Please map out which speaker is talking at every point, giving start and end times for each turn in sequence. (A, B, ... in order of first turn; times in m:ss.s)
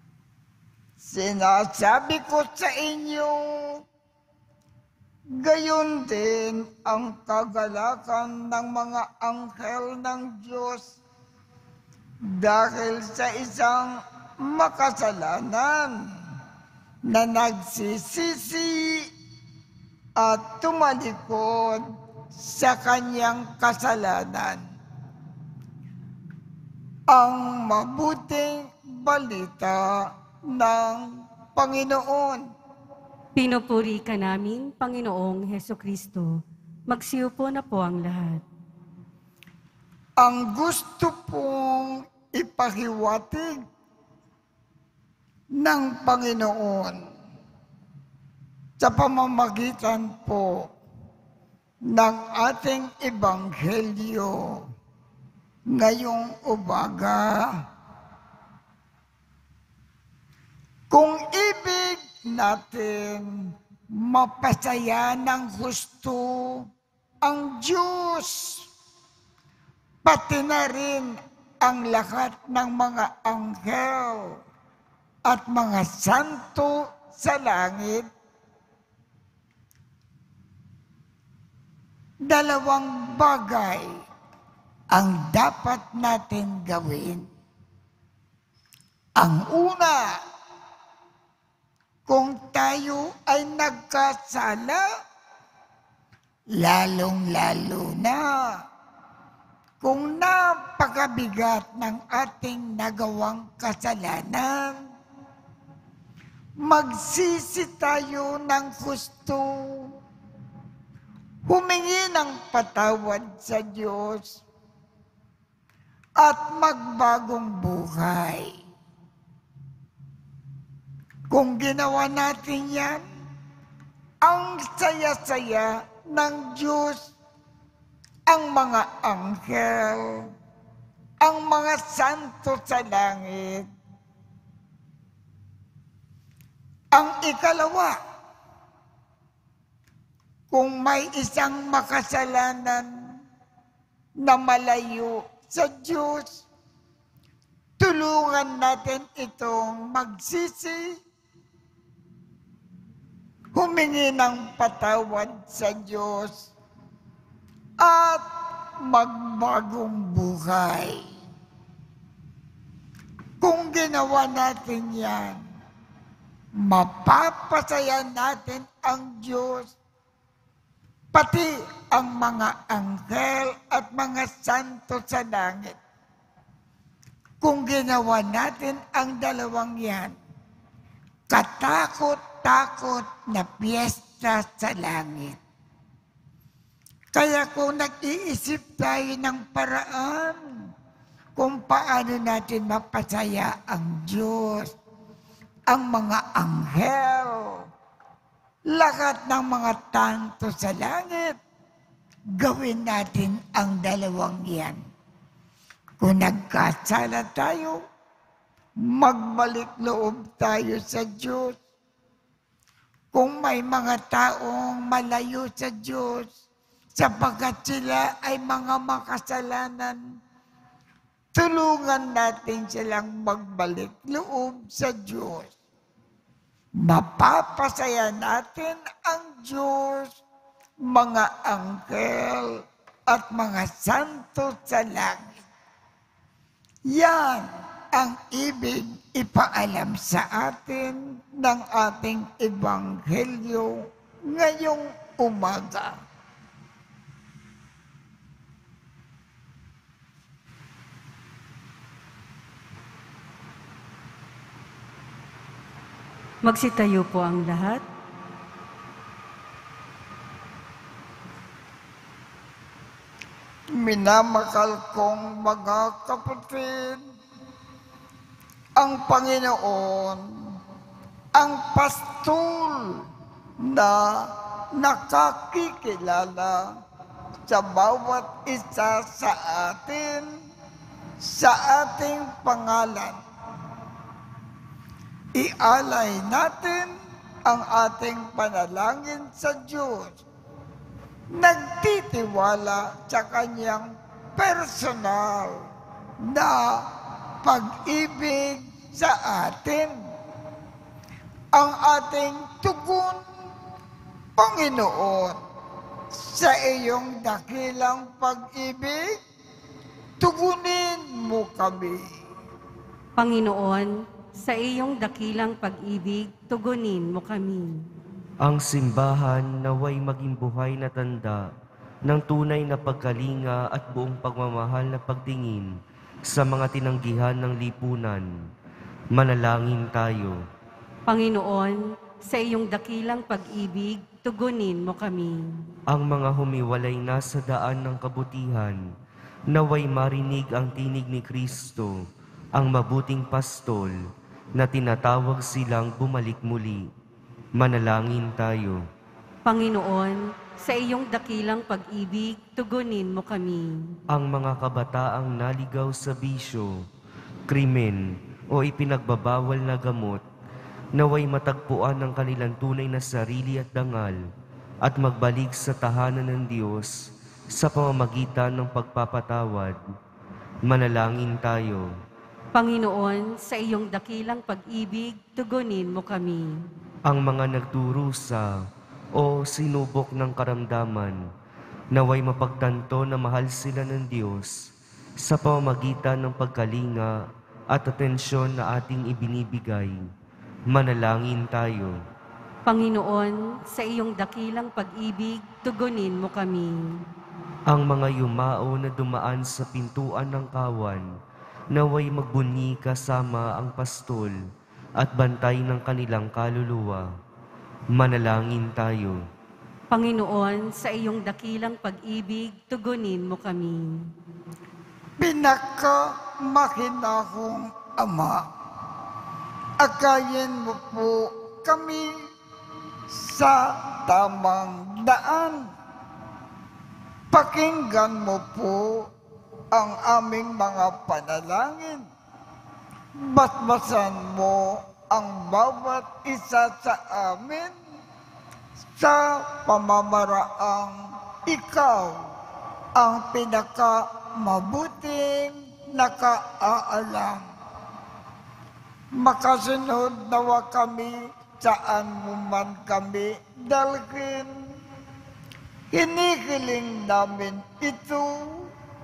0:01.0-0:03.8 A
0:05.4-0:10.9 A
0:12.3-0:16.0 A
0:17.1-0:19.1 A
0:20.2-0:24.6 A
0:27.1-0:32.4 A
0:33.4-0:38.4 B
0:40.2-0:43.6 A
0:45.5-0:47.0 A
0:48.8-0:50.7 A
0:51.9-0:54.7 A
0:55.7-0:57.5 A
1:00.9-1:06.7 A
1:07.2-1:08.7 A
1:10.0-1:14.4 A
1:15.2-1:18.1 A
1:22.3-1:24.0 A
1:24.9-1:27.3 A
1:29.2-1:30.2 A
1:32.1-1:34.8 A
1:36.5-1:38.6 A
1:39.8-1:44.9 A
1:46.6-1:50.0 A
1:51.4-1:54.4 A
1:56.2-1:58.6 A
2:01.3-2:03.0 A
2:04.2-2:07.1 A
2:08.3-2:10.3 A
2:11.2-2:13.7 A
2:16.9-2:18.0 A
2:20.5-2:23.2 A
2:24.2-2:26.4 A
2:27.8-2:31.0 A
2:33.5-2:36.5 A
2:37.8-2:41.0 A
2:43.4-2:45.4 A
2:46.6-2:49.7 A
2:51.1-2:55.8 A
2:57.4-3:00.2 A
3:01.3-3:05.4 A
3:07.1-3:10.4 A
3:11.4-3:14.8 A
3:15.7-3:17.6 A
3:18.7-3:21.4 A
3:22.4-3:24.8 A
3:26.0-3:27.8 A
3:28.8-3:31.6 A
3:33.1-3:36.3 A
3:37.0-3:40.0 A
3:41.3-3:45.5 A
3:46.8-3:50.2 A
3:50.9-3:55.4 A
3:56.9-4:06.0 A
4:16.4-4:17.8 B
4:23.7-4:27.0 A
4:28.8-4:30.6 A
4:31.3-4:33.1 A
4:33.6-4:36.7 A
4:37.5-4:40.3 A
4:41.2-4:43.2 A
4:45.3-4:46.9 A
4:47.4-4:50.2 A
4:51.3-4:55.6 A
4:56.2-5:00.0 A
5:01.5-5:03.2 A
5:04.4-5:05.4 A
5:06.1-5:09.2 A
5:10.2-5:12.1 A
5:13.2-5:17.8 B
5:18.4-5:21.5 C
5:22.0-5:25.8 C
5:26.3-5:28.3 C
5:29.1-5:30.4 C
5:31.1-5:35.5 B
5:35.9-5:38.8 C
5:39.5-5:42.0 C
5:42.5-5:43.9 C
5:44.6-5:46.9 C
5:47.6-5:48.8 C
5:49.4-5:53.8 B
5:54.1-5:56.8 C
5:57.5-6:00.2 C
6:01.0-6:04.2 C
6:04.8-6:09.8 C
6:10.6-6:11.9 C
6:12.5-6:16.6 B
6:17.1-6:18.5 C
6:19.2-6:21.2 C
6:21.9-6:24.6 C
6:25.2-6:30.0 C
6:30.7-6:32.0 C
6:32.7-6:36.9 B
6:37.7-6:41.0 C
6:41.7-6:44.4 C
6:45.0-6:47.1 C
6:47.9-6:49.2 C
6:49.9-6:54.0 B
6:55.2-6:58.4 A
6:59.8-7:02.2 A
7:03.1-7:05.7 A
7:07.3-7:09.1 A
7:09.7-7:12.0 A
7:13.2-7:17.7 A
7:18.9-7:22.2 A
7:23.0-7:27.4 A
7:29.2-7:34.5 A
7:35.9-7:38.7 A